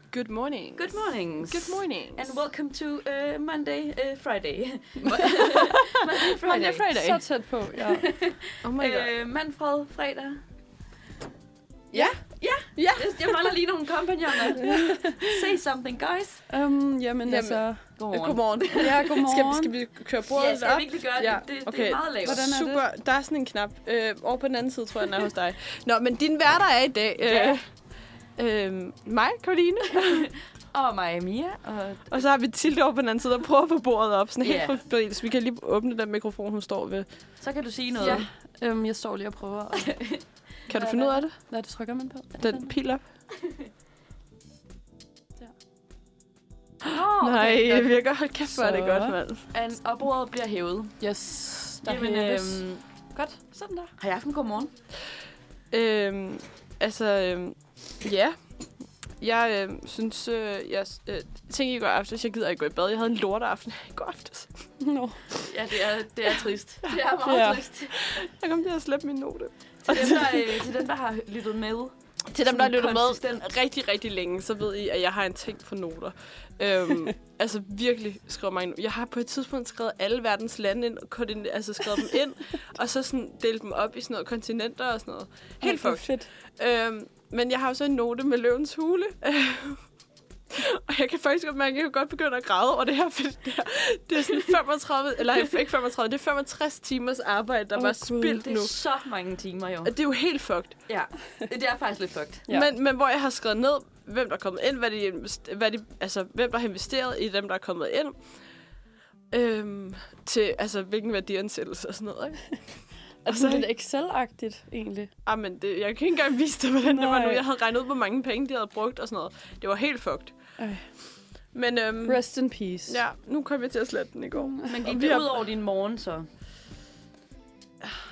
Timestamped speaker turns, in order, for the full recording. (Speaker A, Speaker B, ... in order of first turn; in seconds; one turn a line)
Speaker A: 0.1-2.3
Speaker B: 0.8-7.2
Speaker C: 6.4-8.1
Speaker B: 7.8-10.4
Speaker A: 8.6-9.1
Speaker A: 11.9-12.2
Speaker B: 11.9-16.4
Speaker A: 12.7-13.5
Speaker C: 14.6-15.4
Speaker C: 16.5-17.8
Speaker A: 17.3-27.6
Speaker B: 18.0-19.0
Speaker C: 18.7-19.7
Speaker B: 20.3-22.4
Speaker C: 22.2-22.8
Speaker B: 27.2-27.6
Speaker A: 28.4-30.3
Speaker B: 29.9-32.2
Speaker A: 32.1-37.0
Speaker B: 34.4-34.8
Speaker B: 37.4-38.3
Speaker C: 38.0-39.9
Speaker B: 39.7-40.2
Speaker A: 40.7-41.4
Speaker C: 40.7-42.7
Speaker A: 42.4-43.0
Speaker B: 46.9-48.0
Speaker A: 47.2-49.5
Speaker C: 48.5-49.2
Speaker B: 49.5-51.0
Speaker C: 51.0-53.9
Speaker B: 51.8-52.8
Speaker B: 54.0-54.7
Speaker A: 55.7-58.3
Speaker A: 59.2-64.5
Speaker C: 64.8-65.2
Speaker B: 65.4-68.2
Speaker A: 66.9-70.6
Speaker C: 67.2-67.6
Speaker B: 69.8-73.5
Speaker A: 72.3-89.8
Speaker C: 85.6-86.3
Speaker A: 90.5-98.7
Speaker C: 97.7-98.5
Speaker B: 98.4-99.9
Speaker A: 99.8-100.8
Speaker B: 100.9-102.5
Speaker A: 102.5-108.1
Speaker A: 109.3-112.6
Speaker A: 113.2-113.7
Speaker C: 113.2-115.1
Speaker A: 115.2-120.3
Speaker C: 116.8-117.4
Speaker C: 120.6-120.8
Speaker A: 121.5-122.2
Speaker C: 122.0-123.0
Speaker A: 122.9-125.4
Speaker B: 124.6-126.2